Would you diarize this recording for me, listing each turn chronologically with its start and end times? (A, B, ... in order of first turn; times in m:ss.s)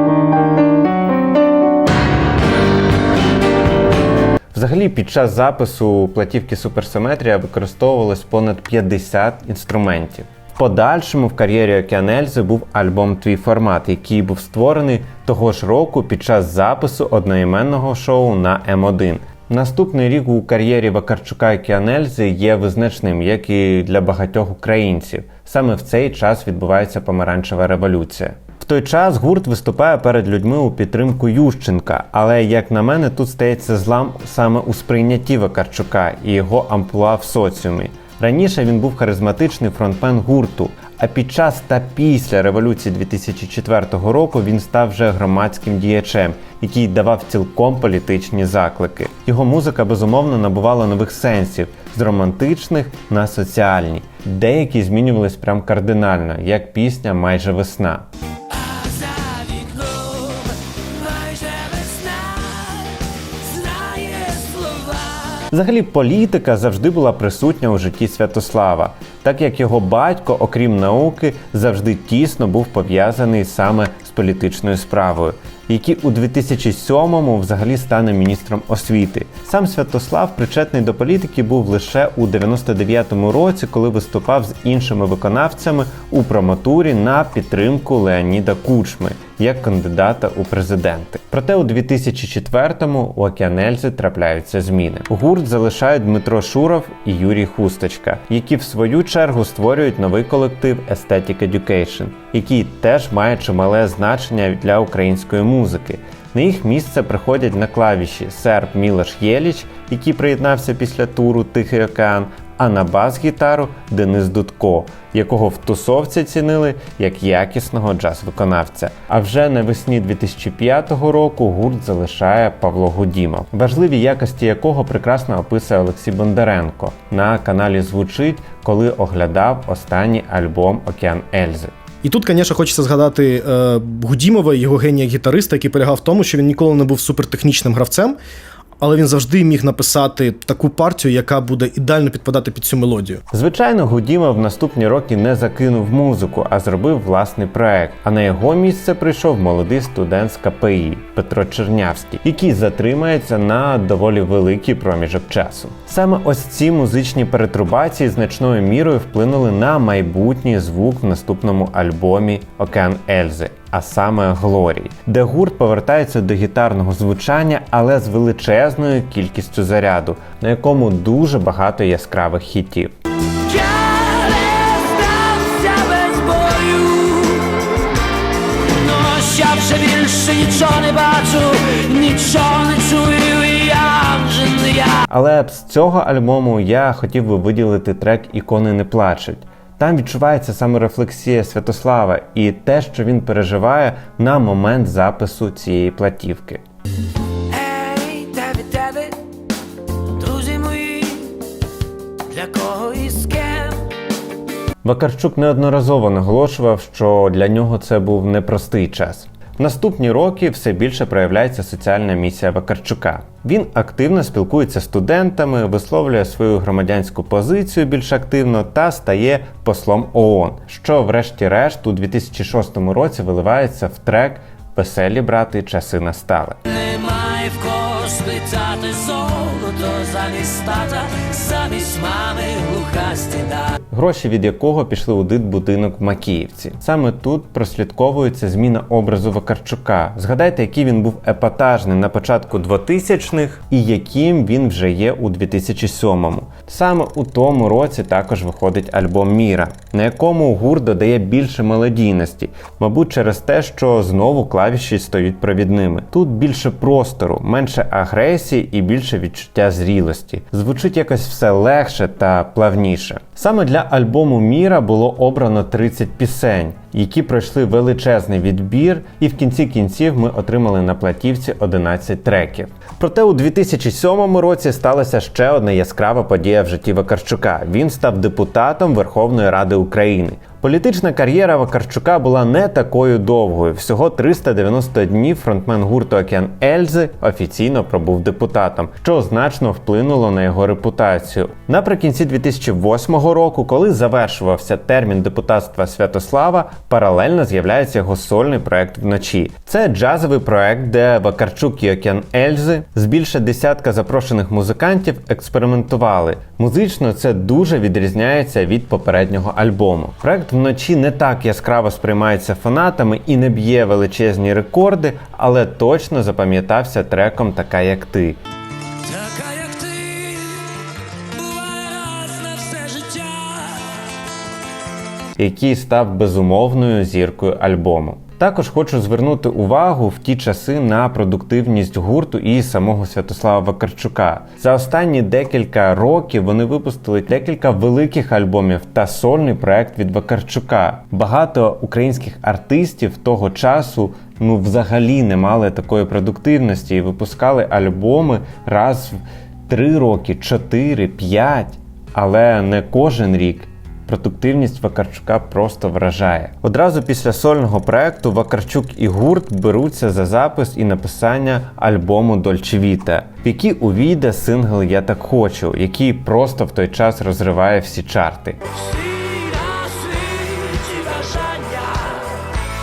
0:04.5-0:58.1 A
0:58.5-1:05.5 B
1:05.5-2:11.7 A
2:12.0-2:18.2 C
2:18.8-2:23.2 C
2:23.3-2:52.9 A
2:53.4-2:57.9 B
2:58.6-3:05.0 B
3:05.1-3:16.6 A
3:17.5-3:19.2 B
3:20.1-3:21.4 B
3:22.3-3:23.9 B
3:24.8-3:46.6 A
3:46.6-3:53.8 B
3:53.9-5:18.4 A
5:19.0-5:24.1 B
5:25.4-6:08.6 A
6:08.7-6:12.5 B